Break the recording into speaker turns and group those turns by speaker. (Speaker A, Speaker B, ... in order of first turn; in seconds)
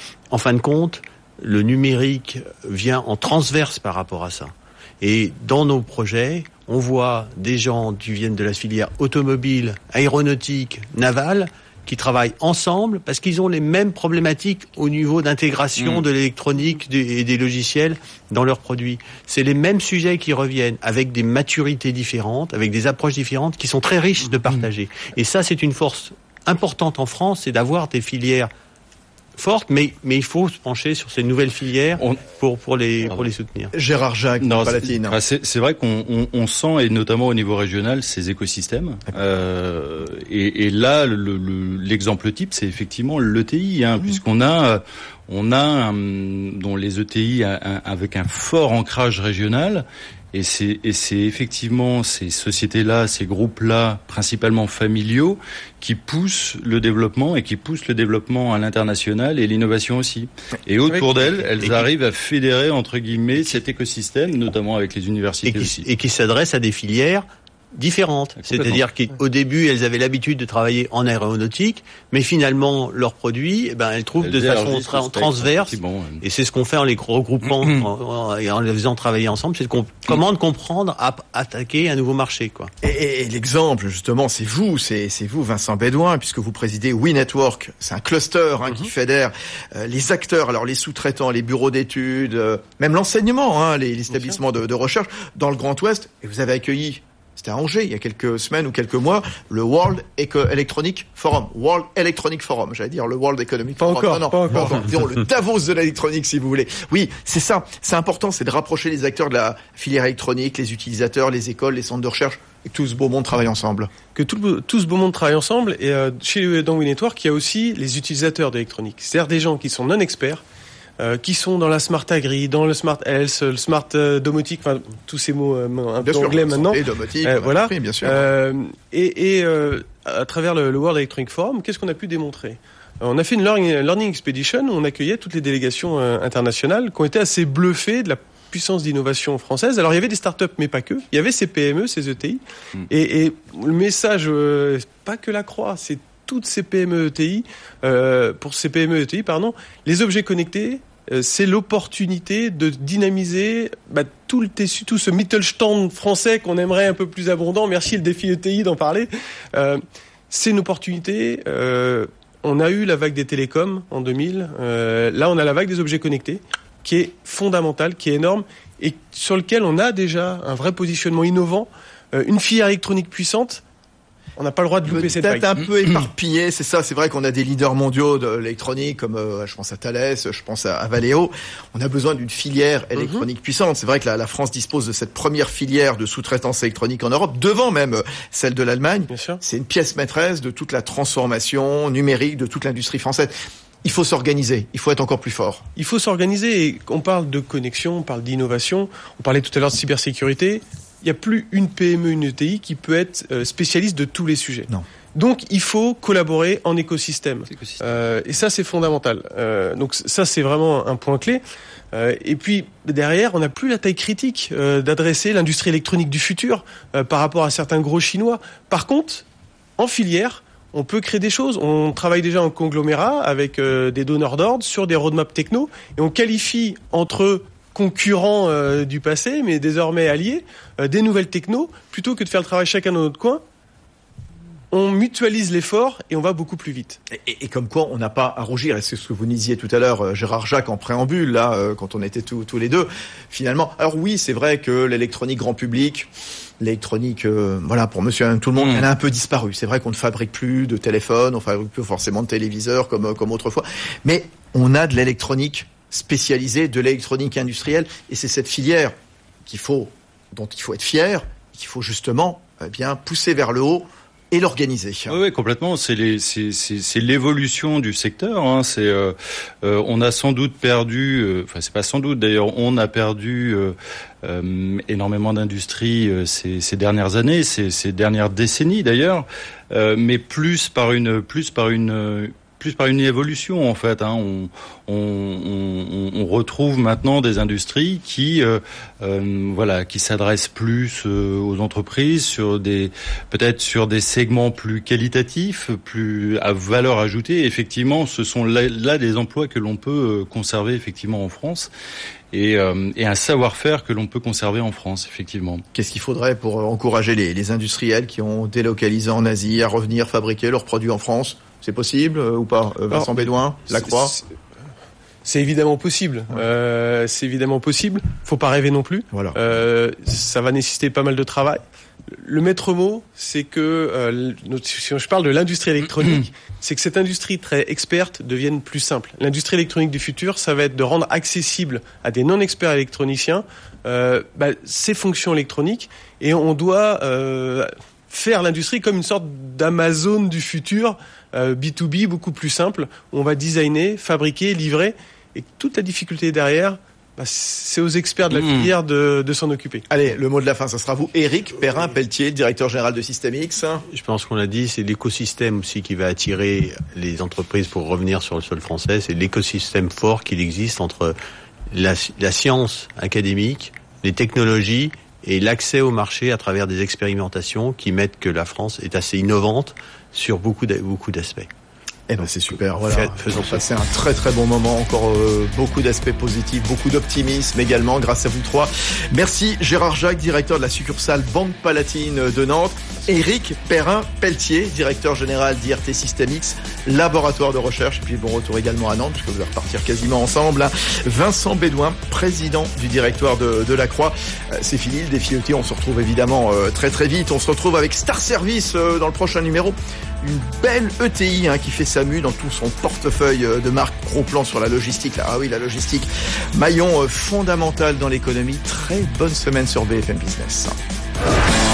Speaker A: 0.3-28.5, 29.4-33.7, 65.5-82.7, 353.9-361.2, 361.7-371.5, 372.8-373.6
Speaker B: 15.8-16.1, 34.4-65.8, 68.4-68.8, 74.2-76.2, 77.5-77.9, 207.5-208.0, 265.1-301.7, 302.3-305.6, 348.3-348.7
Speaker C: 33.7-35.2, 82.8-113.9, 126.0-128.3, 174.8-195.7, 237.1-246.1, 246.6-265.2, 305.7-314.2, 349.9-353.9, 372.1-410.8
Speaker D: 103.8-104.9, 114.2-120.4, 121.0-173.6, 174.4-175.5, 183.0-183.2, 189.1-189.4, 195.8-219.2, 219.8-233.4, 234.7-237.0, 312.9-314.3, 315.2-349.9